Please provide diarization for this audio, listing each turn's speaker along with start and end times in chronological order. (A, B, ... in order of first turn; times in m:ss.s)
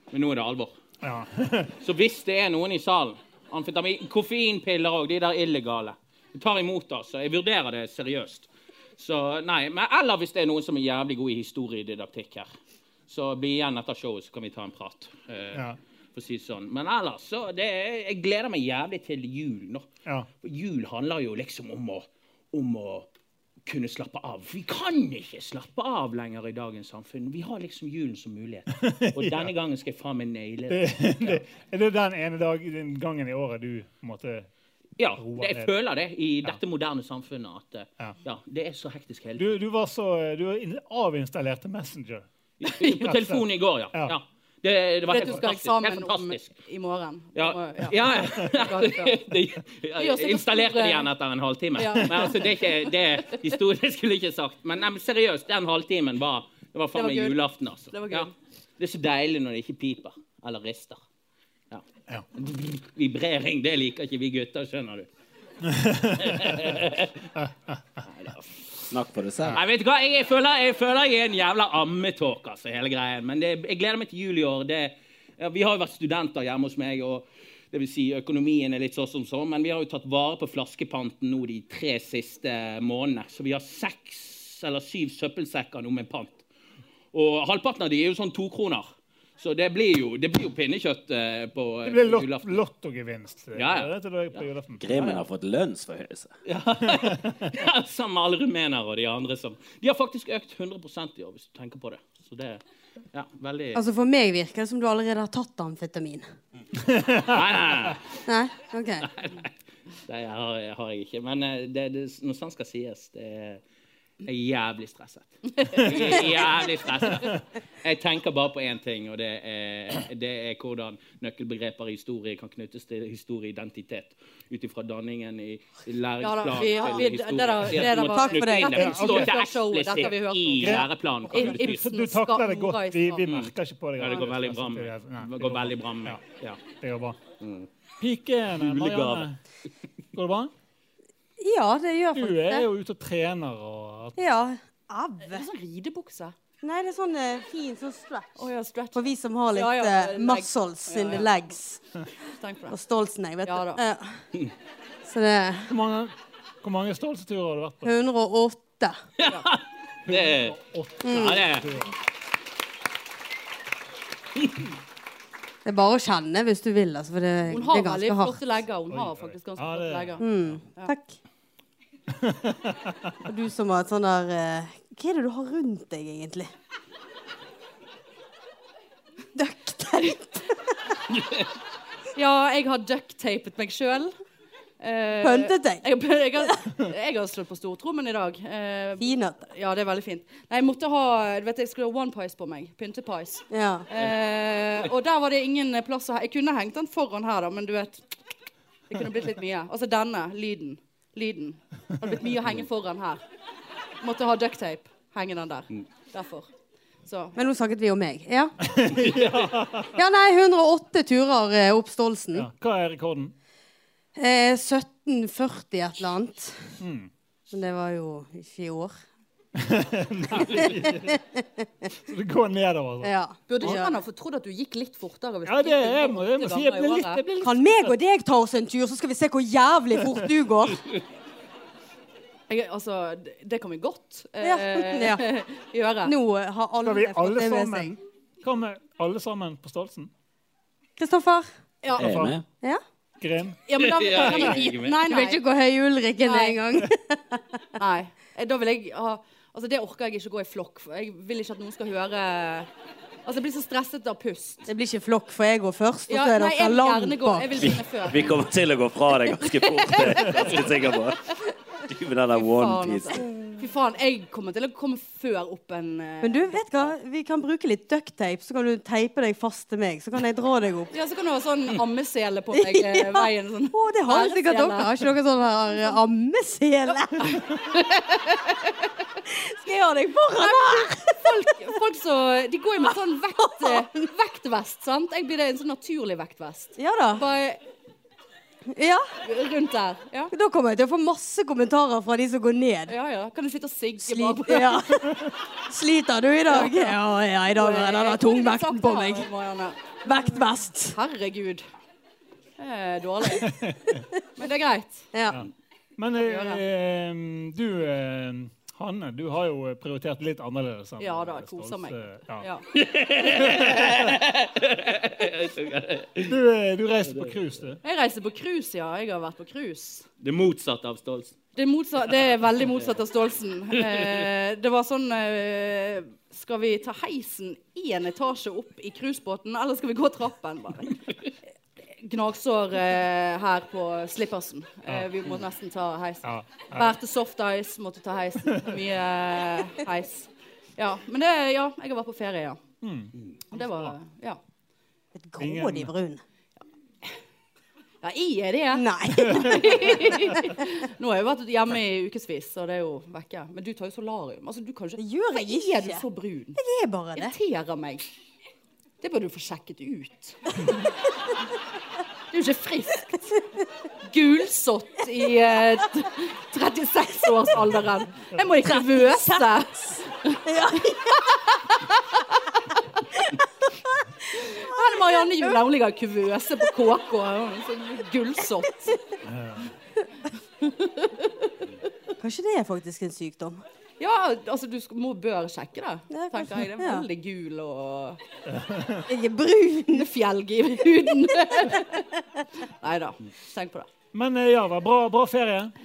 0:00.1-0:00.8 A
0:01.0-0:01.7 B
0:01.8-0:12.5 A
0:13.1-0:15.6 A
0:16.1-0:19.9 A
0:20.4-0:23.1 A
0:23.6-0:31.4 A
0:28.8-0:29.5 B
0:30.7-0:34.5 B
0:35.0-0:39.6 A
0:35.2-0:35.7 B
0:39.4-0:42.3 B
0:42.6-0:46.5 A
0:43.0-0:44.2 B
0:45.1-0:49.2 C
0:47.3-1:01.0 A
0:50.0-0:51.1 C
0:51.8-0:52.3 C
0:56.9-0:57.4 C
0:57.9-0:58.3 C
1:02.3-1:05.1 A
1:05.6-1:06.8 B
1:06.2-1:07.2 A
1:07.4-1:07.8 B
1:08.0-1:08.5 A
1:08.9-1:09.6 D
1:09.5-1:26.4 A
1:27.1-1:28.8 A
1:29.4-1:32.6 A
1:31.8-1:34.8 B
1:33.5-1:35.2 A
1:34.8-1:36.3 D
1:36.4-1:42.6 A
1:36.8-1:37.5 B
1:43.1-1:43.8 A
1:43.7-1:46.2 E
1:46.9-1:47.3 B
1:47.2-1:48.0 A
1:48.2-1:49.1 E
1:49.0-1:49.5 A
1:50.1-1:53.6 A
1:54.2-2:11.8 A
1:55.7-1:56.1 C
2:06.2-2:13.4 C
2:08.0-2:09.0 E
2:08.7-2:09.3 B
2:10.6-2:16.2 B
2:13.2-2:16.6 A
2:16.8-2:17.2 B
2:17.4-2:17.7 A
2:18.0-2:19.4 B
2:18.6-2:19.3 A
2:20.1-2:20.5 B
2:21.4-2:22.7 E
2:22.1-2:24.2 B
2:24.2-2:25.4 E
2:25.2-2:26.3 C
2:26.6-2:31.8 E
2:28.4-2:31.4 C
2:32.4-2:32.8 C
2:32.7-2:34.2 E
2:33.4-2:33.8 C
2:35.0-2:35.7 E
2:35.7-2:37.9 B
2:37.8-2:39.0 E
2:39.2-2:41.7 A
2:39.2-2:39.5 C
2:40.0-2:41.9 B
2:41.0-2:41.4 E
2:45.6-2:48.4 E
2:47.5-2:50.9 C
2:48.9-2:50.6 B
2:50.2-2:51.2 E
2:52.1-2:53.2 B
2:53.2-2:56.5 E
2:59.3-3:00.7 E
3:02.1-3:04.1 C
3:04.8-3:18.1 C
3:05.2-3:05.8 E
3:09.0-3:09.4 E
3:13.5-3:13.8 E
3:18.9-3:23.2 C
3:24.0-3:26.5 C
3:27.0-3:27.4 C
3:27.3-3:28.5 E
3:28.6-3:29.9 B
3:30.0-3:32.5 E
3:32.3-3:33.3 B
3:34.2-3:36.8 E
3:36.8-3:37.1 B
3:37.5-3:38.9 E
3:39.6-3:41.2 B
3:40.3-3:41.4 E
3:42.1-3:43.1 B
3:43.0-3:44.0 E
3:43.5-3:47.2 C
3:45.4-3:47.8 B
3:47.4-3:50.8 E
3:52.5-3:56.1 C
3:54.4-3:55.2 E
3:56.0-3:57.9 E
3:56.8-4:00.1 B
4:01.0-4:01.5 E
4:01.8-4:02.2 C
4:02.0-4:02.3 B
4:02.0-4:02.4 D
4:03.2-4:03.6 B
4:03.7-4:05.4 C
4:03.8-4:05.0 A
4:04.8-4:07.6 E
4:06.2-4:06.6 C
4:07.8-4:12.7 C
4:13.2-4:14.7 C
4:14.7-4:17.7 E
4:16.1-4:18.4 C
4:17.6-4:21.3 D
4:19.4-4:21.4 C
4:21.8-4:23.2 D
4:22.3-4:26.9 C
4:26.2-4:30.9 E
4:30.9-4:35.1 C
4:32.5-4:37.5 E
4:37.2-4:38.7 C
4:39.2-4:41.5 E
4:40.4-4:47.6 C
4:43.4-4:43.9 E
4:46.8-4:47.2 E
4:48.7-4:49.1 E
4:49.2-4:50.3 C
4:50.3-4:52.9 E
4:52.9-4:55.0 C
4:54.0-4:59.3 E
4:56.5-4:56.9 C
4:57.5-5:01.6 C
5:00.0-5:01.0 E
5:02.6-5:03.5 C
5:03.4-5:04.0 B
5:04.4-5:05.1 C
5:05.1-5:05.4 E
5:05.3-5:12.4 B
5:06.2-5:06.6 C
5:11.0-5:12.7 C
5:12.7-5:16.4 A
5:13.2-5:14.2 B
5:16.3-5:17.8 B
5:17.1-5:17.4 A
5:17.8-5:20.1 C
5:20.2-5:21.3 A
5:21.6-5:31.0 C
5:23.9-5:24.2 A
5:32.0-5:42.6 C
5:36.2-5:37.0 B
5:42.8-5:43.9 B
5:43.5-5:44.4 C
5:45.1-5:46.2 E
5:45.4-5:45.9 B
5:48.0-5:56.6 C
5:48.7-5:50.5 E
5:55.0-5:56.0 E
5:56.5-5:57.3 E
5:57.1-5:58.0 C
5:59.0-6:00.8 C
6:02.3-6:03.2 C
6:03.2-6:03.6 E
6:04.0-6:12.8 C
6:08.6-6:09.9 E
6:10.4-6:11.4 E
6:13.2-6:15.6 E
6:14.3-6:19.0 C
6:19.2-6:19.7 B
6:20.6-6:21.3 C
6:22.2-6:23.6 E
6:24.0-6:28.2 C
6:26.1-6:27.0 E
6:28.5-6:29.1 B
6:29.1-6:30.1 E
6:29.9-6:33.9 C
6:34.1-6:35.7 B